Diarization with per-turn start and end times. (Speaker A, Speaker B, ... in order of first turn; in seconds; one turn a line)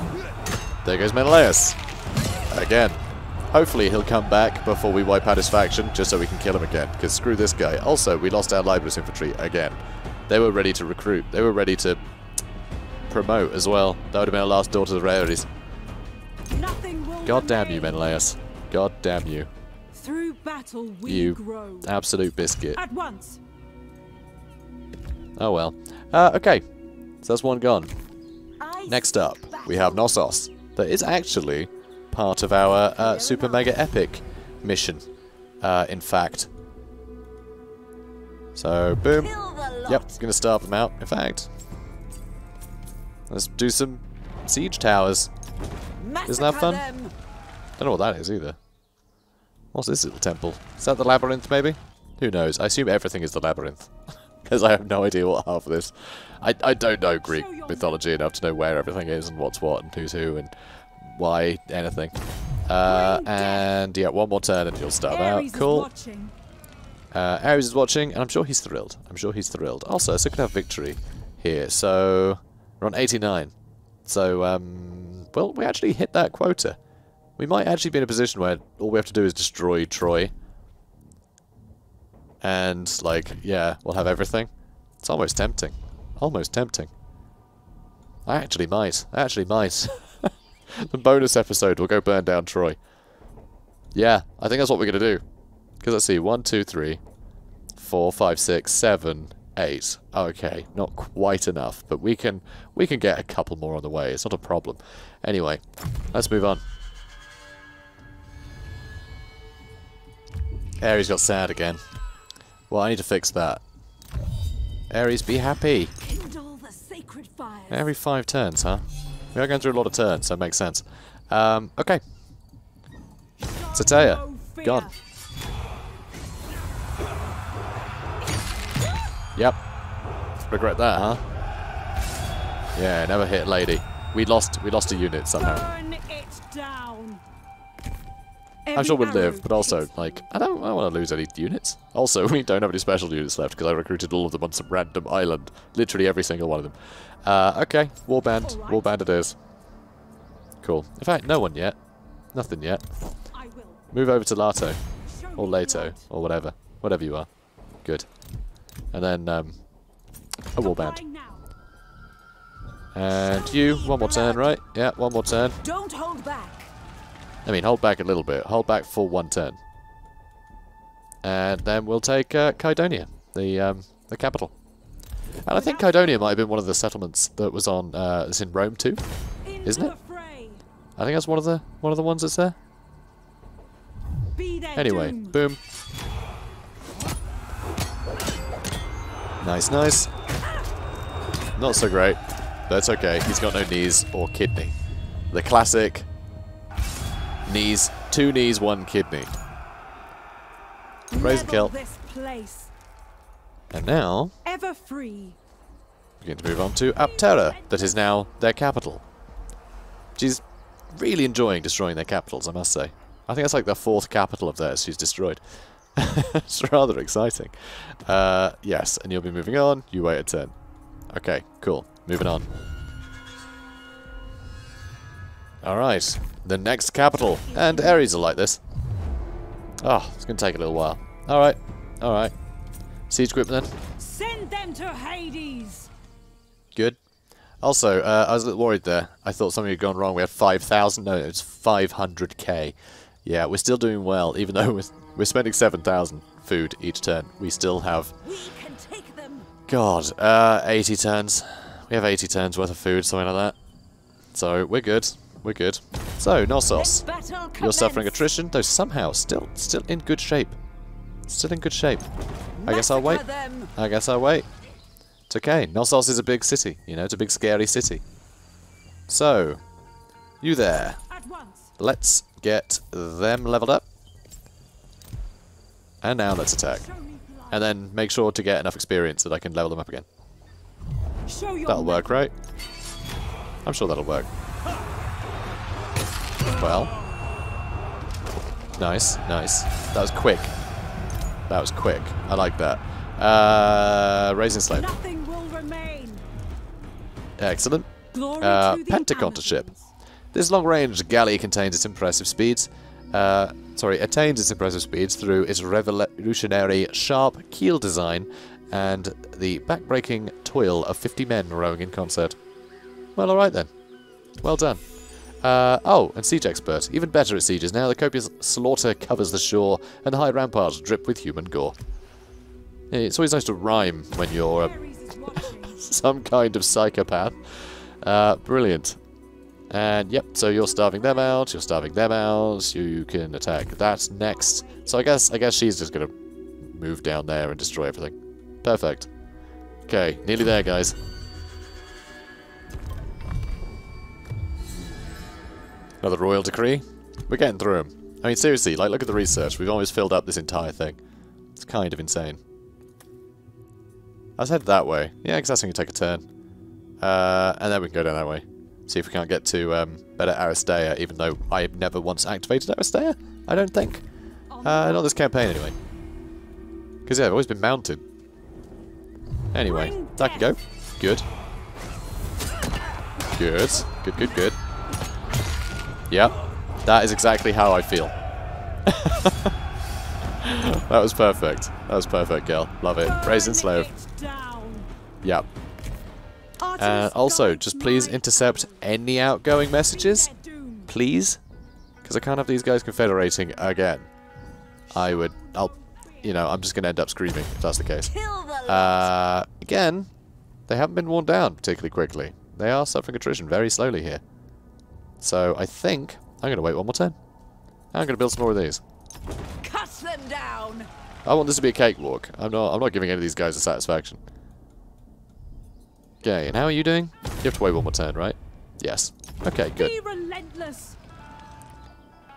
Speaker A: 0.8-1.8
Speaker A: 2.5-12.0
Speaker A: 13.1-15.5
Speaker B: 16.5-18.1
Speaker A: 17.2-19.5
Speaker B: 19.9-21.9
Speaker A: 21.1-22.8
Speaker B: 22.7-23.4
Speaker A: 25.4-26.6
Speaker A: 27.2-27.9
Speaker B: 28.6-30.1
Speaker A: 28.9-35.0
Speaker B: 32.9-33.9
Speaker A: 35.6-36.5
Speaker A: 38.5-39.3
Speaker B: 39.1-40.2
Speaker A: 39.9-41.5
Speaker A: 43.3-45.3
Speaker B: 46.0-47.1
Speaker A: 46.3-46.9
Speaker A: 47.8-48.6
Speaker A: 49.7-53.9
Speaker A: 54.5-62.1
Speaker B: 57.2-58.0
Speaker A: 62.6-65.9
Speaker B: 62.8-63.7
Speaker B: 65.1-66.3
Speaker A: 67.1-73.5
Speaker A: 74.0-76.8
Speaker A: 77.4-80.3
Speaker A: 82.4-86.9
Speaker A: 88.2-92.8
Speaker A: 93.9-95.2
Speaker A: 95.8-97.0
Speaker A: 97.8-105.6
Speaker A: 106.1-106.6
Speaker A: 110.8-111.8
Speaker A: 112.7-113.6
Speaker A: 114.9-115.9
Speaker B: 116.0-117.9
Speaker A: 117.7-122.0
Speaker B: 123.4-124.9
Speaker A: 123.7-124.9
Speaker A: 130.4-131.2
Speaker A: 132.7-135.7
Speaker B: 135.3-137.2
Speaker B: 138.7-140.3
Speaker A: 138.7-149.4
Speaker B: 148.4-149.0
Speaker A: 150.6-151.8
Speaker A: 152.3-152.9
Speaker B: 153.3-153.8
Speaker A: 153.9-154.8
Speaker B: 155.0-156.0
Speaker A: 155.4-157.3
Speaker A: 158.9-159.6
Speaker A: 160.5-161.0
Speaker B: 160.6-161.4
Speaker A: 162.9-165.6
Speaker B: 163.1-164.6
Speaker B: 165.6-166.7
Speaker A: 167.4-169.6
Speaker A: 171.2-174.5
Speaker A: 175.4-179.0
Speaker B: 175.5-176.3
Speaker B: 179.4-180.6
Speaker A: 179.6-179.9
Speaker A: 181.0-182.6
Speaker B: 184.3-185.4
Speaker A: 184.7-185.6
Speaker A: 189.4-190.1
Speaker A: 191.6-194.7
Speaker A: 195.3-196.1
Speaker A: 197.4-199.3
Speaker B: 201.1-202.7
Speaker A: 201.2-201.7
Speaker A: 203.7-204.3
Speaker B: 204.4-205.4
Speaker A: 206.2-209.0
Speaker B: 206.9-208.1
Speaker A: 210.2-215.4
Speaker A: 215.9-220.5
Speaker A: 221.1-222.5
Speaker A: 225.6-228.6
Speaker B: 226.9-228.5
Speaker A: 229.8-232.3
Speaker A: 233.1-233.7
Speaker B: 234.0-235.9
Speaker A: 237.6-248.1
Speaker B: 248.2-249.5
Speaker A: 249.7-253.6
Speaker A: 254.3-257.0
Speaker B: 256.7-258.3
Speaker A: 257.6-260.6
Speaker A: 261.3-262.1
Speaker B: 262.6-263.7
Speaker A: 262.6-263.2
Speaker A: 263.8-264.5
Speaker A: 265.3-268.0
Speaker A: 269.1-269.6
Speaker A: 270.4-271.0
Speaker B: 271.1-271.7
Speaker A: 271.8-273.9
Speaker A: 276.0-276.8
Speaker B: 276.6-277.6
Speaker A: 277.5-280.1
Speaker B: 281.2-282.2
Speaker A: 281.7-282.3
Speaker A: 283.6-284.3
Speaker A: 286.5-286.9
Speaker A: 288.8-290.5
Speaker A: 291.5-294.9
Speaker B: 294.7-296.2
Speaker A: 297.4-299.7
Speaker B: 298.1-299.9
Speaker A: 300.3-312.4
Speaker A: 313.1-313.7
Speaker A: 314.4-314.8
Speaker A: 315.4-321.8
Speaker A: 322.9-324.7
Speaker B: 324.4-325.9
Speaker A: 325.4-327.4
Speaker A: 328.0-329.0
Speaker A: 329.7-336.1
Speaker B: 334.2-335.3
Speaker A: 336.7-339.1
Speaker A: 339.9-341.0
Speaker A: 346.0-351.0
Speaker A: 351.6-352.4
Speaker A: 354.4-356.2
Speaker A: 357.0-364.0
Speaker B: 364.5-365.3
Speaker A: 364.6-365.8
Speaker A: 367.1-368.0
Speaker A: 369.5-371.2
Speaker B: 369.6-370.6
Speaker A: 373.4-374.6
Speaker A: 376.1-378.1
Speaker A: 378.9-379.5
Speaker A: 380.4-383.9
Speaker B: 383.0-384.9
Speaker A: 385.2-385.5
Speaker B: 386.6-388.9
Speaker A: 386.8-390.3
Speaker B: 389.9-390.9
Speaker A: 390.9-391.4
Speaker A: 392.0-394.1
Speaker B: 394.9-396.4
Speaker A: 394.9-398.1
Speaker B: 398.0-399.1
Speaker A: 398.6-400.1
Speaker A: 400.7-404.2
Speaker A: 405.2-407.1
Speaker A: 407.9-408.8
Speaker B: 409.6-410.9
Speaker A: 411.2-414.2
Speaker A: 416.2-419.9
Speaker B: 419.8-421.0